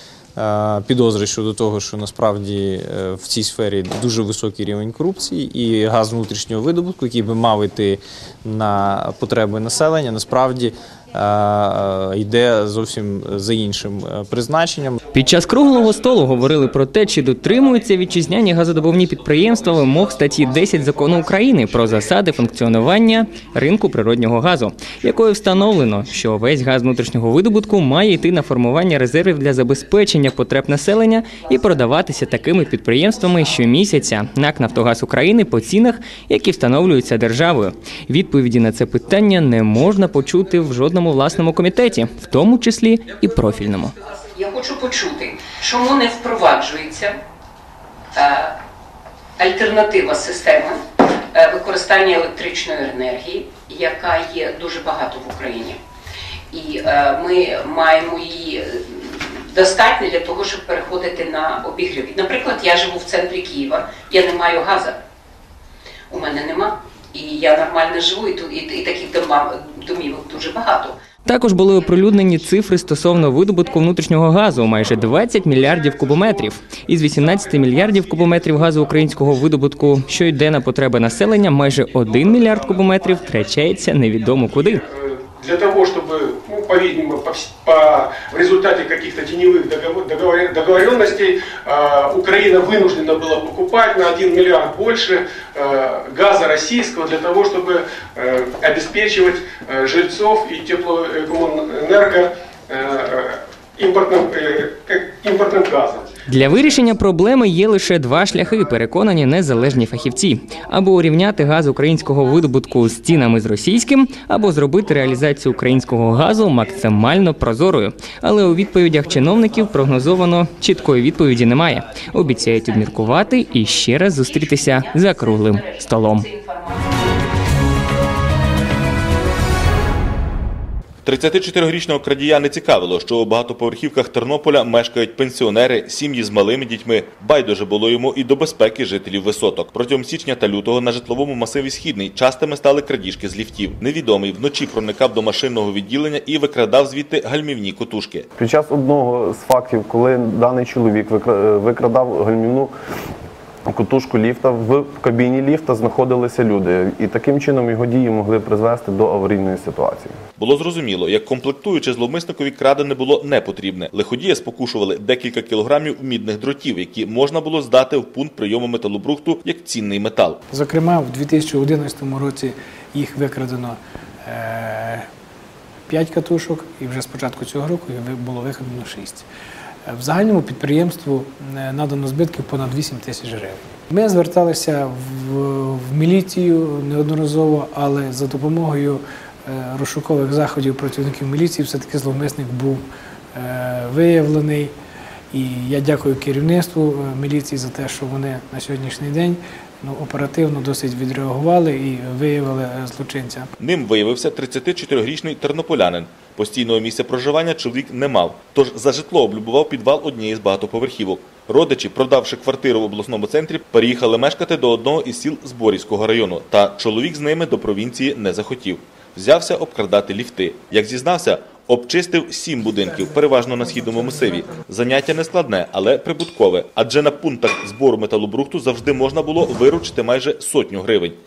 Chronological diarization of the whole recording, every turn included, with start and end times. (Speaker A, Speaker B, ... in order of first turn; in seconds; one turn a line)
Speaker A: 0.4-15.0
Speaker B: 15.1-43.9
Speaker C: 44.3-47.2
Speaker C: 48.1-48.5
Speaker C: 49.4-50.8
Speaker C: 51.3-55.8
Speaker C: 56.5-65.0
Speaker C: 66.1-71.0
Speaker B: 71.2-84.8
Speaker C: 71.8-72.4
Speaker D: 85.4-106.0
Speaker B: 106.3-126.3
Speaker C: 122.7-126.8
Speaker E: 131.0-148.3
Speaker F: 148.3-152.7
Speaker F: 153.7-160.1
Speaker E: 160.4-170.4
Speaker G: 170.5-175.1
Speaker G: 175.9-179.2
Speaker G: 179.9-192.8
Speaker G: 193.3-194.7
Speaker G: 195.3-203.5
Speaker E: 203.6-231.2